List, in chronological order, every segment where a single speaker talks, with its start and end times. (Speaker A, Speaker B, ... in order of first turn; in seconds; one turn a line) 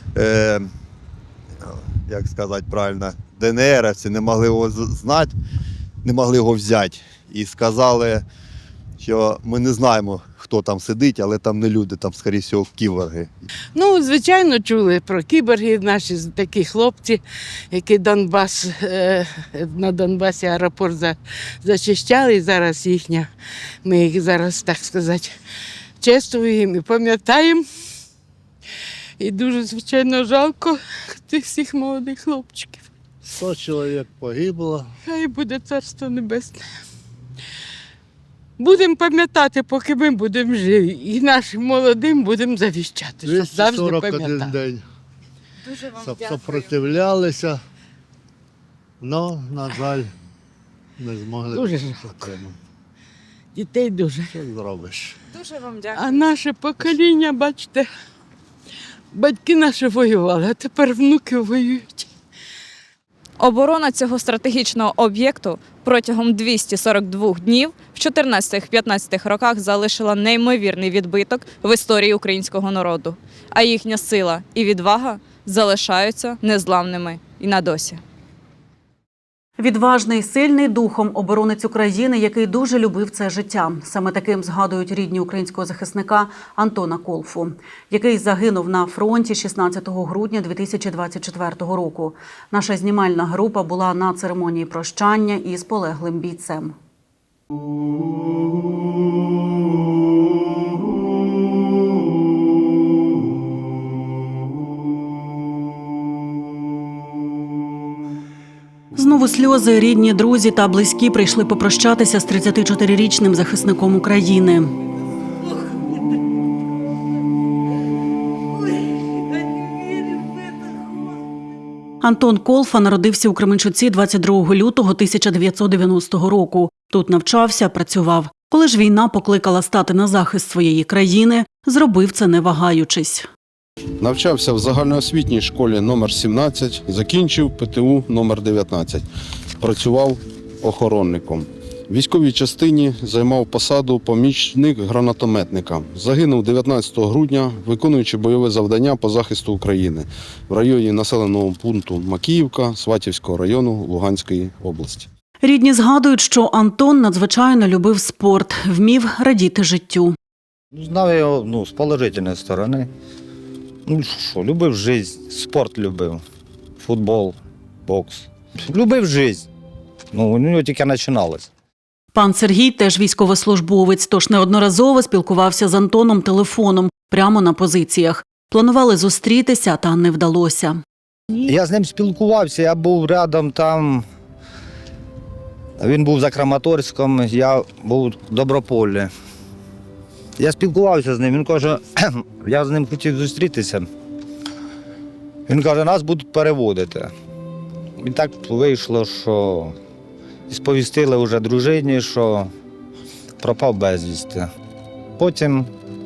Speaker A: 0.2-0.7
Speaker A: 1.6-5.3
Speaker A: 6.0-8.2
Speaker A: 9.0-13.3
Speaker B: 13.8-23.3
Speaker B: 23.9-25.3
Speaker B: 26.0-27.6
Speaker B: 29.2-32.9
Speaker B: 35.0-36.6
Speaker B: 38.6-44.6
Speaker B: 51.5-52.3
Speaker B: 53.5-54.4
Speaker B: 55.9-57.9
Speaker B: 59.1-62.1
Speaker C: 63.4-78.0
Speaker D: 79.6-96.7
Speaker D: 109.0-114.8
Speaker D: 122.0-133.3
Speaker E: 134.0-139.1
Speaker E: 139.6-155.1
Speaker D: 155.4-160.2
Speaker F: 160.7-162.9
Speaker F: 163.8-166.2
Speaker F: 166.8-169.5
Speaker F: 170.1-171.5
Speaker D: 172.1-180.8
Speaker F: 181.3-184.1
Speaker F: 185.8-189.1
Speaker F: 190.4-193.9
Speaker F: 195.5-197.1
Speaker F: 198.0-199.8
Speaker F: 200.5-202.5
Speaker F: 203.4-204.5
Speaker F: 205.2-205.7